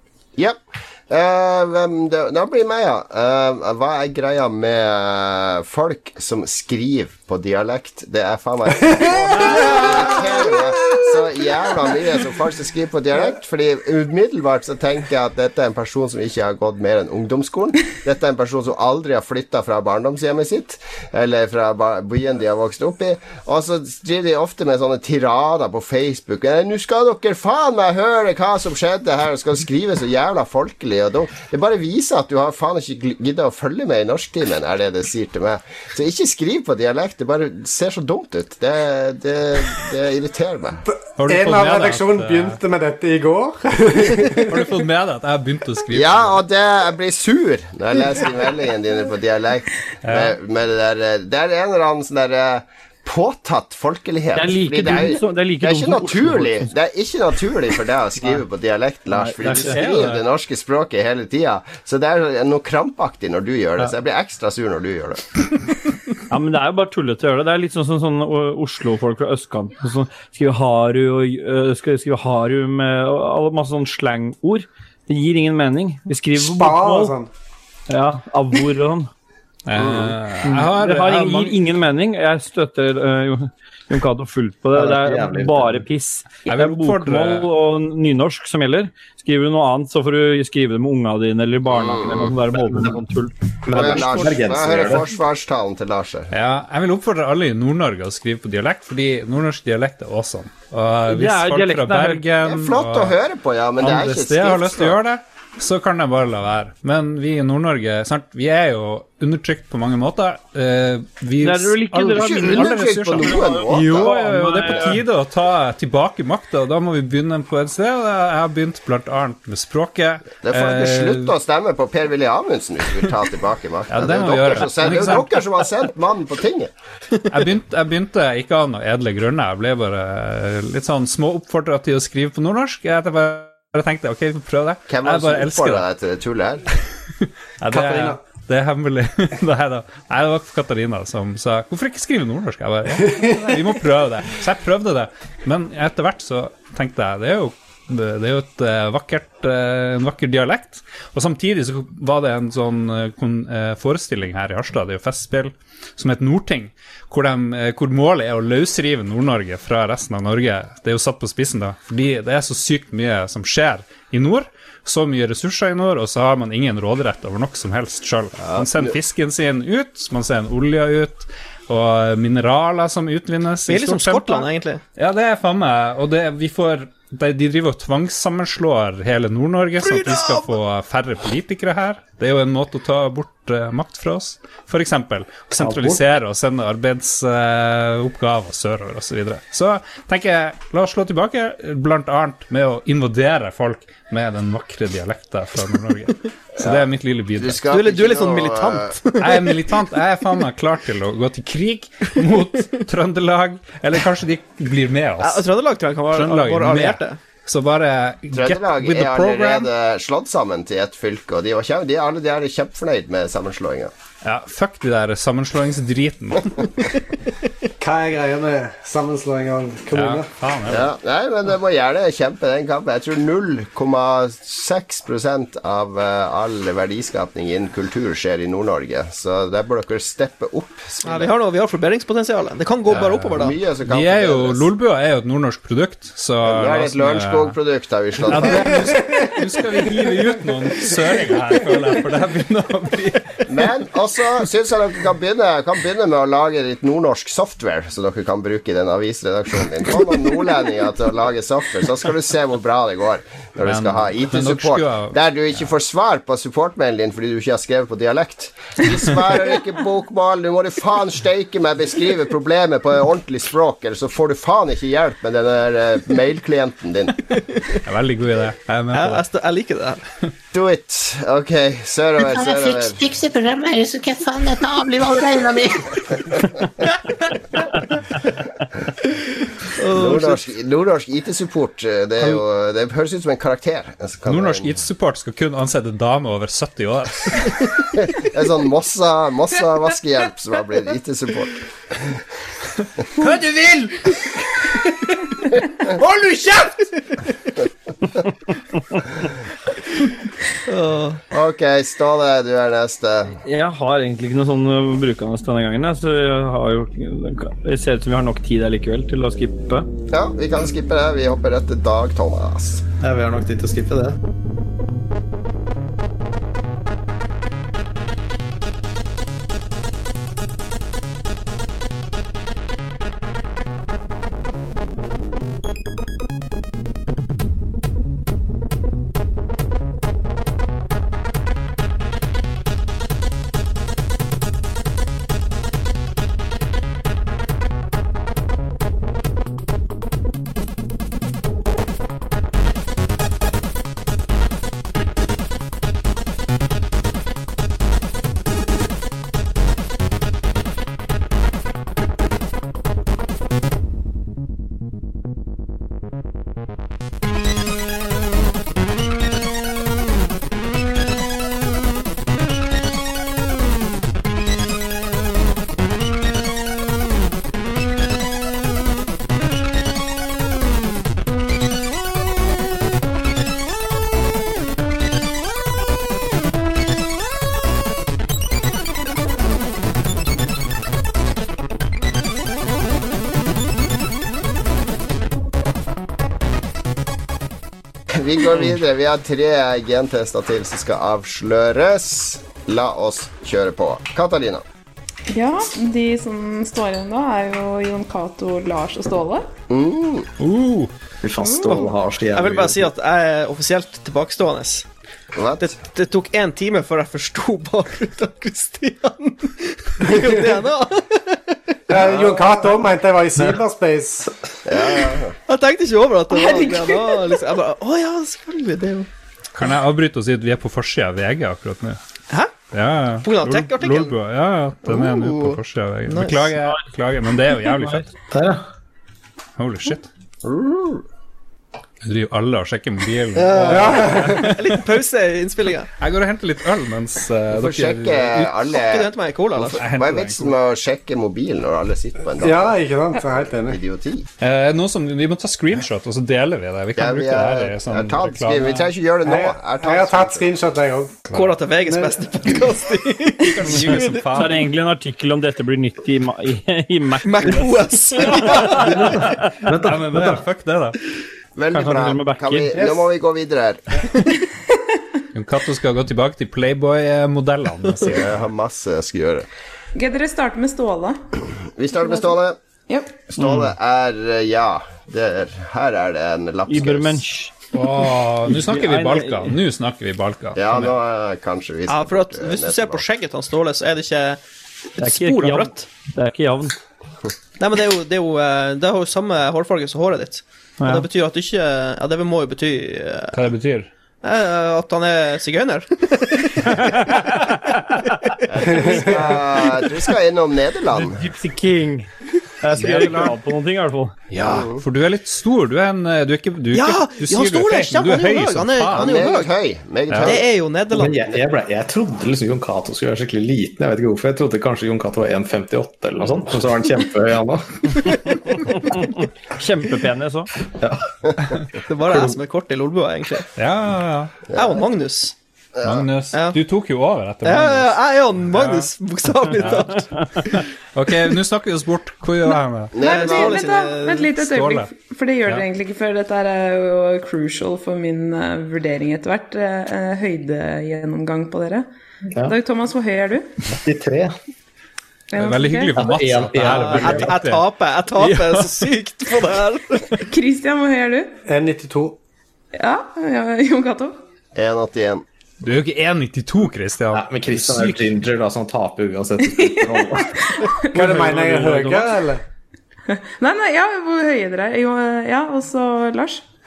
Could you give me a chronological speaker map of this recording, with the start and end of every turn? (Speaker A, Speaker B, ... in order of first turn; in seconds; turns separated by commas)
Speaker A: 0.4-40.8, Speaker B: 9.3-9.9, Speaker B: 40.9-44.7, Speaker C: 41.2-42.6, Speaker C: 44.5-46.4, Speaker A: 45.9-65.2, Speaker C: 50.0-50.3, Speaker D: 54.3-56.7, Speaker D: 59.2-59.8, Speaker C: 59.5-60.2, Speaker D: 66.3-77.2, Speaker B: 76.3-77.3, Speaker D: 77.9-79.1, Speaker C: 79.7-81.6, Speaker D: 80.4-93.3, Speaker E: 84.8-85.8, Speaker C: 86.5-87.5, Speaker A: 91.7-92.3, Speaker E: 92.5-93.0, Speaker E: 93.6-95.1, Speaker A: 93.7-96.3, Speaker F: 93.8-94.3, Speaker C: 96.3-103.1, Speaker D: 101.1-102.2, Speaker A: 102.4-105.0, Speaker C: 103.8-121.3, Speaker D: 111.4-115.0, Speaker A: 112.1-114.8, Speaker A: 120.4-126.7, Speaker C: 123.9-125.4, Speaker C: 127.3-135.8, Speaker A: 134.9-136.7, Speaker C: 137.6-197.6, Speaker B: 137.7-138.2, Speaker A: 168.4-168.9, Speaker F: 173.7-174.8, Speaker F: 179.8-180.6, Speaker E: 185.6-186.1, Speaker A: 196.6-196.8, Speaker A: 197.4-198.9, Speaker F: 197.6-199.8, Speaker C: 199.2-205.5, Speaker F: 205.2-207.2, Speaker C: 206.1-209.7, Speaker A: 208.3-213.9, Speaker C: 214.2-216.8, Speaker B: 217.8-220.3, Speaker C: 219.9-220.9, Speaker A: 220.7-231.3, Speaker F: 231.0-233.6, Speaker C: 232.9-237.5, Speaker A: 233.3-234.7, Speaker A: 236.4-238.9, Speaker C: 238.2-243.4, Speaker A: 243.5-267.2, Speaker C: 253.6-255.2, Speaker C: 267.8-269.2, Speaker F: 268.9-270.0, Speaker A: 270.5-273.0, Speaker G: 272.2-276.0, Speaker F: 279.7-280.4, Speaker A: 279.9-284.7, Speaker C: 284.3-287.6, Speaker A: 288.1-291.5, Speaker C: 293.2-294.1, Speaker C: 295.8-296.8, Speaker F: 300.7-301.2, Speaker A: 301.3-303.4, Speaker D: 303.4-309.9, Speaker A: 310.1-312.8, Speaker E: 313.0-314.2, Speaker A: 388.1-394.6, Speaker H: 395.3-399.5, Speaker A: 399.7-400.3, Speaker C: 400.4-400.9, Speaker E: 401.2-402.9, Speaker H: 401.4-401.7, Speaker F: 401.6-404.9, Speaker A: 405.3-405.7, Speaker F: 405.6-411.6, Speaker B: 411.9-414.3, Speaker A: 414.6-415.3, Speaker F: 415.5-419.1, Speaker H: 416.3-417.4, Speaker C: 419.5-422.0, Speaker F: 422.3-422.5, Speaker C: 422.7-428.1, Speaker F: 423.2-424.2, Speaker F: 424.8-426.5, Speaker D: 427.6-428.0, Speaker E: 428.3-428.6, Speaker C: 429.6-430.1, Speaker A: 430.4-431.0, Speaker C: 432.0-434.8, Speaker F: 433.3-435.9, Speaker B: 433.6-434.4, Speaker C: 436.0-438.5, Speaker A: 437.5-442.8, Speaker F: 438.8-439.8, Speaker C: 439.8-440.5, Speaker B: 442.4-443.8, Speaker A: 443.6-444.3, Speaker C: 444.4-448.9, Speaker A: 446.9-450.5, Speaker B: 449.2-451.3, Speaker F: 451.3-454.4, Speaker B: 451.9-452.1, Speaker C: 453.4-454.6, Speaker D: 454.3-459.2, Speaker F: 457.2-459.1, Speaker E: 458.8-460.4, Speaker C: 459.8-461.0, Speaker A: 461.6-463.8, Speaker D: 461.7-462.9, Speaker B: 462.7-463.0, Speaker C: 465.3-468.3, Speaker A: 468.1-469.5, Speaker H: 469.9-471.2, Speaker A: 471.8-472.6, Speaker H: 472.0-472.2, Speaker H: 472.9-473.1, Speaker A: 473.3-477.2, Speaker D: 476.7-477.6, Speaker C: 477.7-480.9, Speaker D: 478.4-479.5, Speaker A: 480.6-483.0, Speaker F: 481.9-484.4, Speaker F: 485.0-485.8, Speaker D: 485.0-486.8, Speaker F: 487.6-493.5, Speaker D: 490.8-491.1, Speaker C: 493.3-493.9, Speaker F: 494.2-496.9, Speaker A: 498.5-501.2, Speaker B: 498.7-499.4, Speaker D: 500.9-502.1, Speaker D: 502.6-504.2, Speaker C: 502.7-503.3, Speaker C: 504.3-509.1, Speaker A: 504.4-504.8, Speaker F: 506.7-509.5, Speaker A: 508.9-510.4, Speaker C: 510.1-510.4, Speaker F: 510.2-511.3, Speaker E: 510.9-518.1, Speaker D: 519.5-520.5, Speaker E: 520.8-521.1, Speaker F: 521.9-523.5, Speaker E: 522.1-522.3, Speaker C: 523.5-524.4, Speaker F: 524.5-525.3, Speaker A: 524.5-524.8, Speaker A: 525.8-526.1, Speaker C: 525.8-528.0, Speaker F: 526.3-526.6, Speaker F: 527.4-530.1, Speaker C: 528.5-528.9, Speaker C: 529.5-530.0, Speaker C: 530.9-533.0, Speaker A: 532.9-533.6, Speaker F: 533.0-534.2, Speaker H: 533.0-541.9, Speaker C: 534.3-534.9, Speaker H: 542.4-543.5, Speaker E: 543.8-544.4, Speaker H: 545.3-545.9, Speaker C: 545.4-548.8, Speaker E: 545.9-547.4, Speaker F: 546.6-550.2, Speaker H: 550.3-551.3, Speaker B: 551.5-552.2, Speaker H: 552.7-554.2, Speaker A: 554.5-555.2, Speaker C: 555.6-558.1, Speaker E: 557.1-560.4, Speaker H: 559.5-560.8, Speaker B: 560.9-562.4, Speaker D: 560.9-562.2, Speaker H: 563.1-566.4